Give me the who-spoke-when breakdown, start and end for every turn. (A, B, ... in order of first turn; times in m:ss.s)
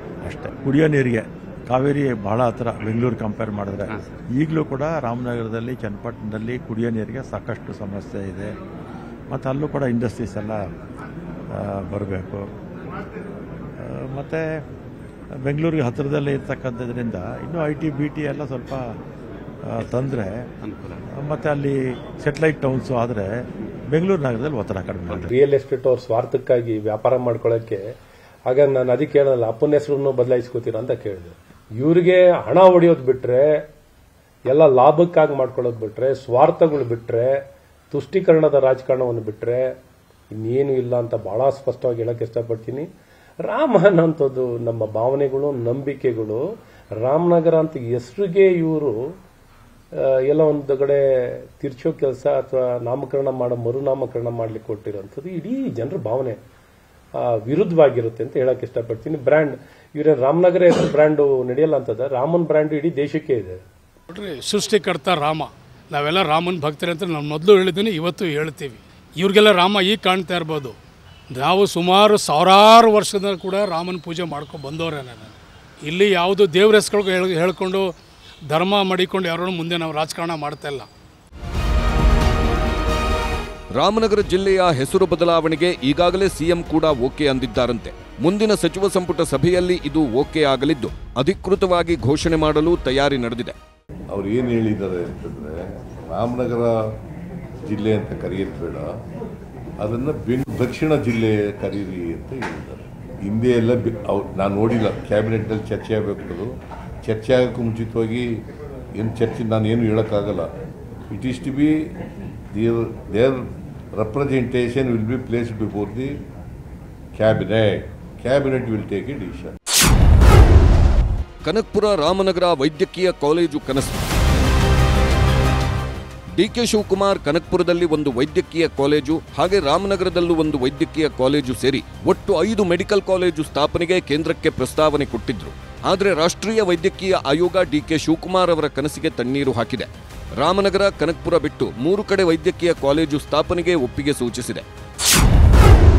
0:00.2-0:08.6 A
0:09.3-0:10.7 A
0:11.5-0:12.5 A
0:13.8-0:14.6 A
0:15.3-0:18.9 A
0:19.6-0:25.3 A
0:25.4-0:27.8 B
0:28.5-0:33.4 B
0:34.5-0:37.2 B
0:37.9-0:39.6 B
0:40.4-0:42.8 B
0:43.5-0:46.4 B
0:47.0-0:48.9 B
0:50.3-0:51.0 B
0:51.6-0:56.4 B
0:57.2-1:03.6 B
1:04.1-1:10.8 C
1:11.3-1:17.9 C
1:18.5-1:20.9 C
1:23.7-1:33.5 D
1:34.1-1:36.7 E
1:37.6-1:38.9 E
1:39.8-1:46.5 E
1:47.0-1:48.3 E
1:49.0-1:50.5 E
1:51.1-1:51.7 E
1:52.5-1:53.4 E
1:54.0-1:56.1 E
1:57.1-1:59.5 E
2:01.4-2:04.1 D
2:06.3-2:24.6 D